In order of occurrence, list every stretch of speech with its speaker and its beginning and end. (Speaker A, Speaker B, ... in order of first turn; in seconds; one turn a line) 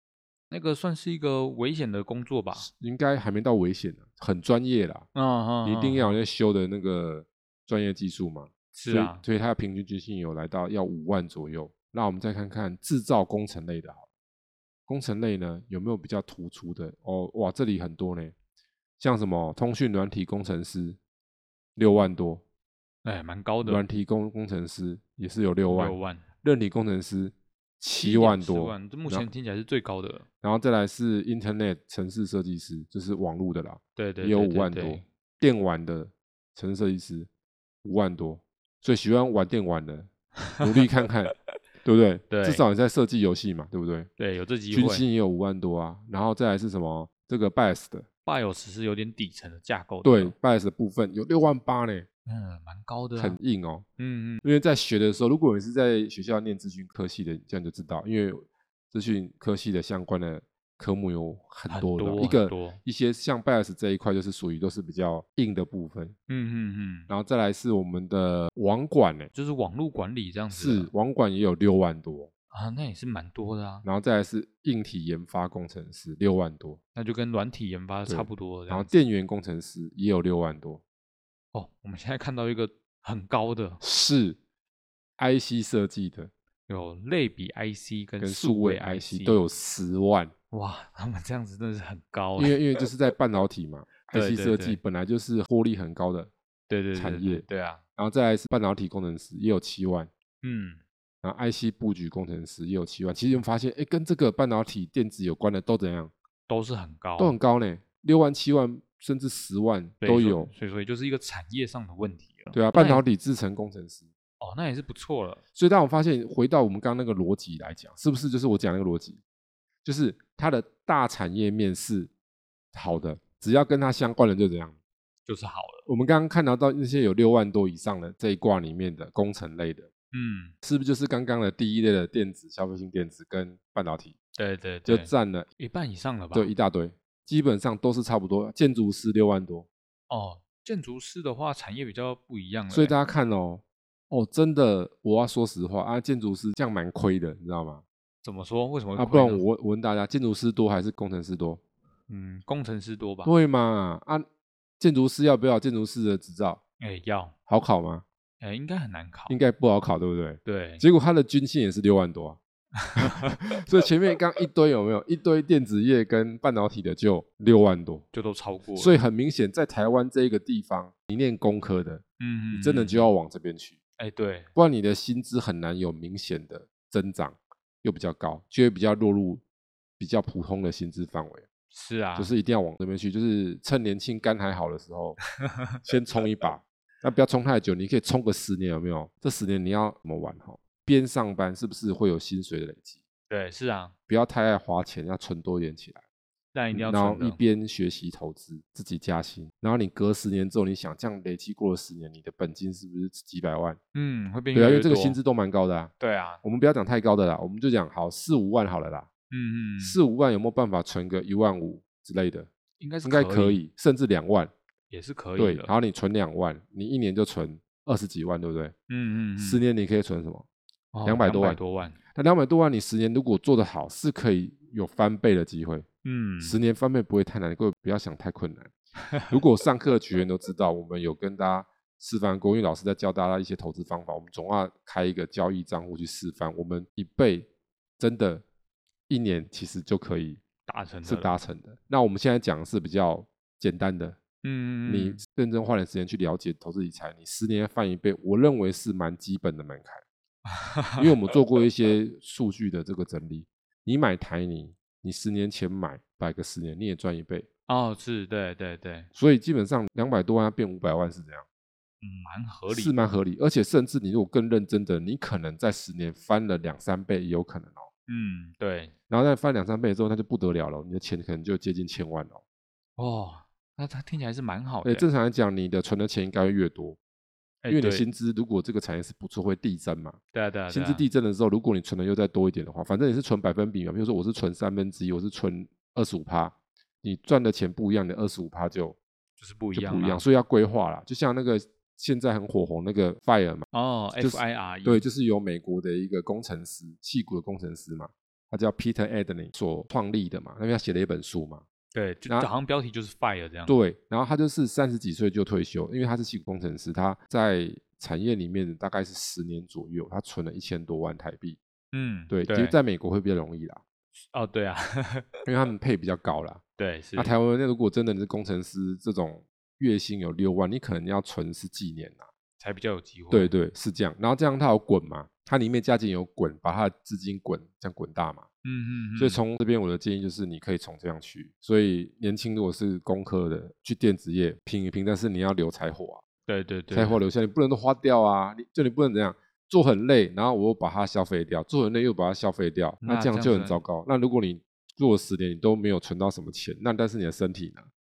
Speaker A: 0.5-2.7
Speaker B: 2.5-5.1
Speaker A: 5.1-6.2
Speaker B: 5.6-14.1
Speaker A: 8.7-9.2
Speaker B: 14.9-18.3
Speaker B: 19.0-21.0
Speaker B: 21.8-22.4
Speaker A: 23.0-23.8
Speaker B: 23.6-29.2
Speaker A: 25.7-26.2
Speaker A: 28.0-30.2
Speaker B: 30.4-37.3
Speaker A: 34.0-35.0
Speaker B: 37.8-41.3
Speaker B: 41.8-44.1
Speaker A: 42.3-42.6
Speaker A: 44.2-45.0
Speaker B: 44.7-48.1
Speaker A: 48.2-50.3
Speaker B: 50.0-52.1
Speaker A: 52.2-53.4
Speaker B: 53.1-53.9
Speaker A: 54.0-54.4
Speaker B: 54.4-66.2
Speaker A: 61.7-62.8
Speaker A: 66.3-67.1
Speaker B: 67.1-69.3
Speaker A: 69.3-70.9
Speaker B: 70.5-72.3
Speaker A: 72.5-73.8
Speaker B: 73.8-76.8
Speaker A: 76.9-78.9
Speaker B: 78.1-80.8
Speaker A: 81.5-83.8
Speaker B: 83.8-84.4
Speaker B: 85.2-86.3
Speaker A: 86.7-89.4
Speaker B: 88.2-90.3
Speaker A: 90.5-92.6
Speaker B: 92.4-96.3
Speaker A: 94.1-94.8
Speaker A: 96.7-97.8
Speaker B: 96.9-97.4
Speaker B: 98.0-100.1
Speaker A: 100.4-100.8
Speaker B: 101.2-106.1
Speaker A: 106.5-107.3
Speaker B: 107.2-110.5
Speaker A: 110.0-113.0
Speaker B: 112.5-114.1
Speaker A: 114.4-115.4
Speaker B: 115.5-119.2
Speaker B: 119.8-122.1
Speaker B: 122.7-124.8
Speaker A: 125.2-125.9
Speaker B: 125.8-129.9
Speaker A: 130.1-130.5
Speaker B: 130.6-134.1
Speaker A: 134.4-136.5
Speaker B: 134.8-135.5
Speaker B: 136.3-139.7
Speaker A: 140.1-142.9
Speaker B: 142.7-147.8
Speaker A: 148.2-149.4
Speaker B: 148.9-151.6
Speaker A: 152.1-153.3
Speaker B: 153.2-154.2
Speaker B: 154.8-156.6
Speaker A: 156.8-157.3
Speaker B: 157.5-158.0
Speaker A: 158.4-159.4
Speaker B: 159.3-162.4
Speaker A: 160.4-160.8
Speaker A: 162.8-163.4
Speaker B: 162.9-168.1
Speaker A: 168.1-169.0
Speaker B: 168.7-173.8
Speaker A: 172.2-173.1
Speaker A: 174.0-174.5
Speaker B: 174.6-179.4
Speaker B: 180.0-181.5
Speaker A: 181.7-182.3
Speaker B: 182.2-185.2
Speaker B: 185.8-193.0
Speaker A: 193.3-193.9
Speaker B: 194.1-196.0
Speaker A: 196.5-197.4
Speaker B: 196.7-203.8
Speaker A: 203.9-205.2
Speaker B: 204.5-205.9
Speaker A: 206.0-206.4
Speaker B: 206.4-209.1
Speaker A: 209.3-210.0
Speaker B: 209.8-212.5
Speaker A: 212.8-213.6
Speaker B: 213.0-214.5
Speaker A: 214.9-215.7
Speaker B: 215.4-218.7
Speaker A: 218.9-219.6
Speaker B: 219.4-220.5
Speaker A: 220.9-222.0
Speaker B: 221.0-221.6
Speaker B: 222.1-225.9
Speaker A: 226.0-226.6
Speaker B: 226.4-228.7
Speaker B: 229.3-237.5
Speaker B: 238.0-238.4
Speaker B: 239.1-240.4
Speaker A: 240.7-241.3
Speaker B: 241.0-244.2
Speaker A: 244.4-245.2
Speaker B: 244.8-250.0
Speaker A: 250.5-251.1
Speaker B: 251.0-257.5
Speaker A: 257.7-259.1
Speaker B: 259.1-261.4
Speaker A: 262.0-263.1
Speaker B: 262.7-267.9
Speaker A: 268.1-268.9
Speaker B: 269.1-272.4
Speaker A: 273.0-275.1
Speaker B: 274.8-277.0
Speaker A: 277.6-278.1
Speaker B: 277.7-289.0
Speaker A: 280.3-281.0
Speaker A: 289.4-290.2
Speaker B: 289.7-301.6
Speaker A: 293.7-295.1
Speaker A: 301.9-303.7
Speaker B: 303.7-311.6
Speaker A: 311.9-312.8
Speaker B: 312.3-313.8
Speaker A: 314.3-315.4
Speaker B: 315.4-316.6
Speaker A: 316.8-317.3
Speaker B: 317.1-322.3
Speaker A: 322.6-323.5
Speaker B: 323.3-328.5
Speaker A: 328.6-329.4
Speaker B: 329.2-336.2
Speaker A: 336.5-337.2
Speaker B: 336.9-347.9
Speaker A: 343.0-343.8